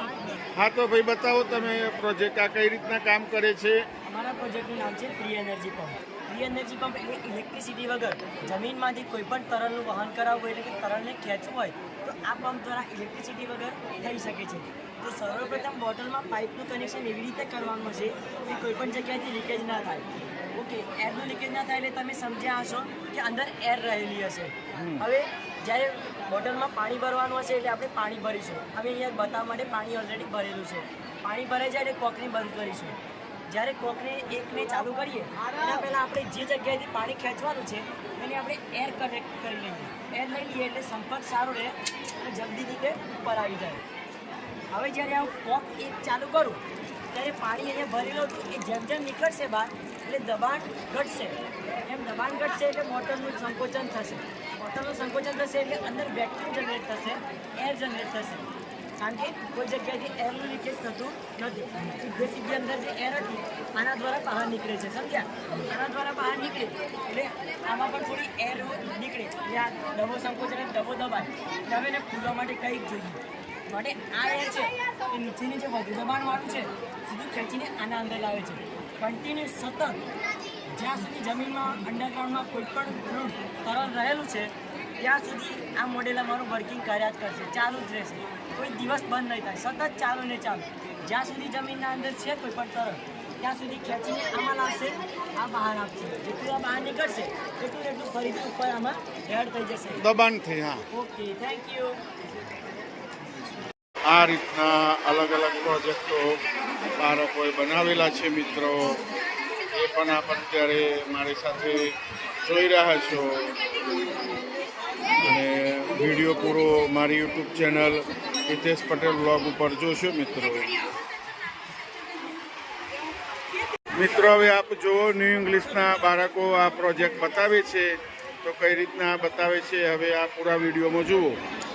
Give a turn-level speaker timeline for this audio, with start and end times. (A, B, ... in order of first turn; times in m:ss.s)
0:00.5-0:03.8 A
0:04.0-0:33.0 B
0:24.7-0:25.0 A
0:33.5-0:43.8 B
0:44.7-0:58.4 B
0:59.0-1:20.0 B
1:20.7-1:40.0 B
1:40.0-1:40.8 A
1:40.9-1:42.0 B
1:44.1-1:46.4 A
1:47.0-1:49.0 A
1:49.7-1:51.9 A
1:52.4-1:53.5 A
1:55.2-2:00.7 A
2:03.9-2:11.4 A